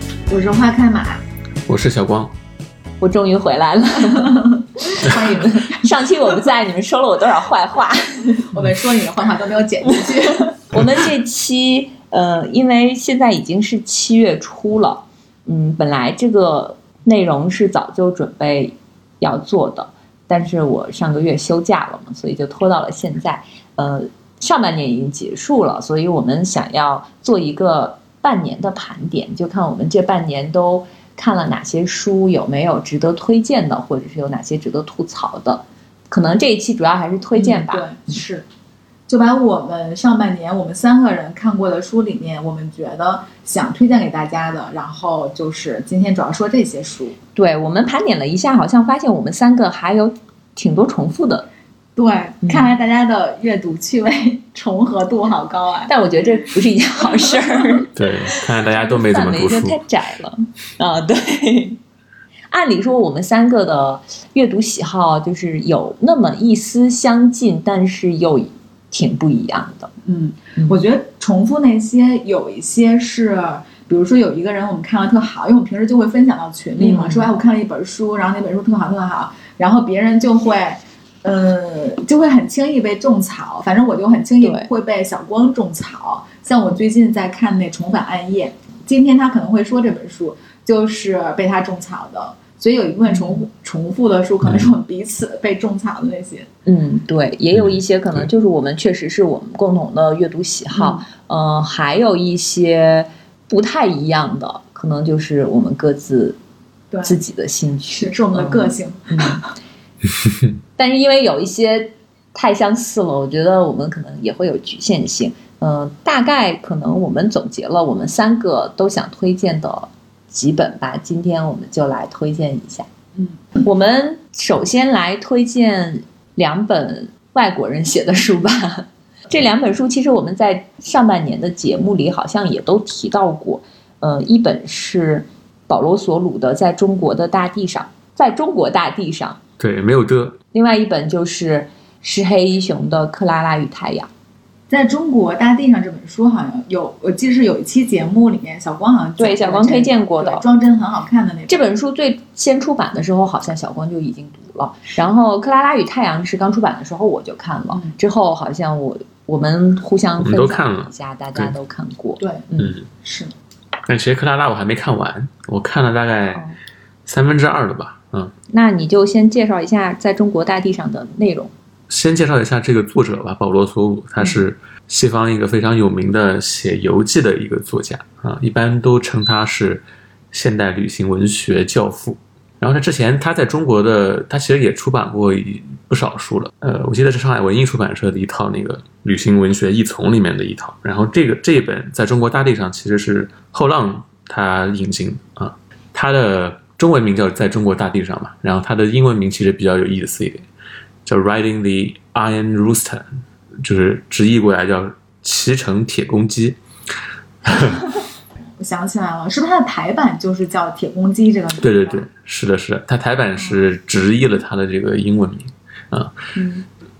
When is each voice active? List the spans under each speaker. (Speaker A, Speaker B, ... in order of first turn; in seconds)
Speaker A: 0.3-1.2, 4.1-5.9, 8.5-10.6, 37.3-38.4, 39.1-47.2, 52.0-55.9, 70.0-96.5, 100.7-101.0, 106.9-107.2, 107.9-109.5, 144.7-151.7, 157.7-158.0, 162.2-163.3, 208.6-212.0
Speaker B: 1.6-2.3, 58.0-59.8, 97.5-98.2, 139.6-140.4, 160.2-161.5, 162.6-162.8, 163.9-166.4, 167.1-168.3, 171.9-200.5, 201.0-203.1, 203.6-206.6, 207.4-207.9, 211.6-216.1
Speaker C: 3.0-8.6, 9.9-37.9, 47.3-51.5, 52.4-52.7, 55.9-57.9, 58.7-61.8, 62.5-69.9, 76.8-77.3, 84.4-84.7, 93.1-93.4, 96.7-106.4, 107.0-109.4, 110.8-122.9, 123.6-139.4, 140.5-144.1, 149.2-150.4, 151.5-162.8, 166.3-166.6, 168.5-171.5, 216.3-216.6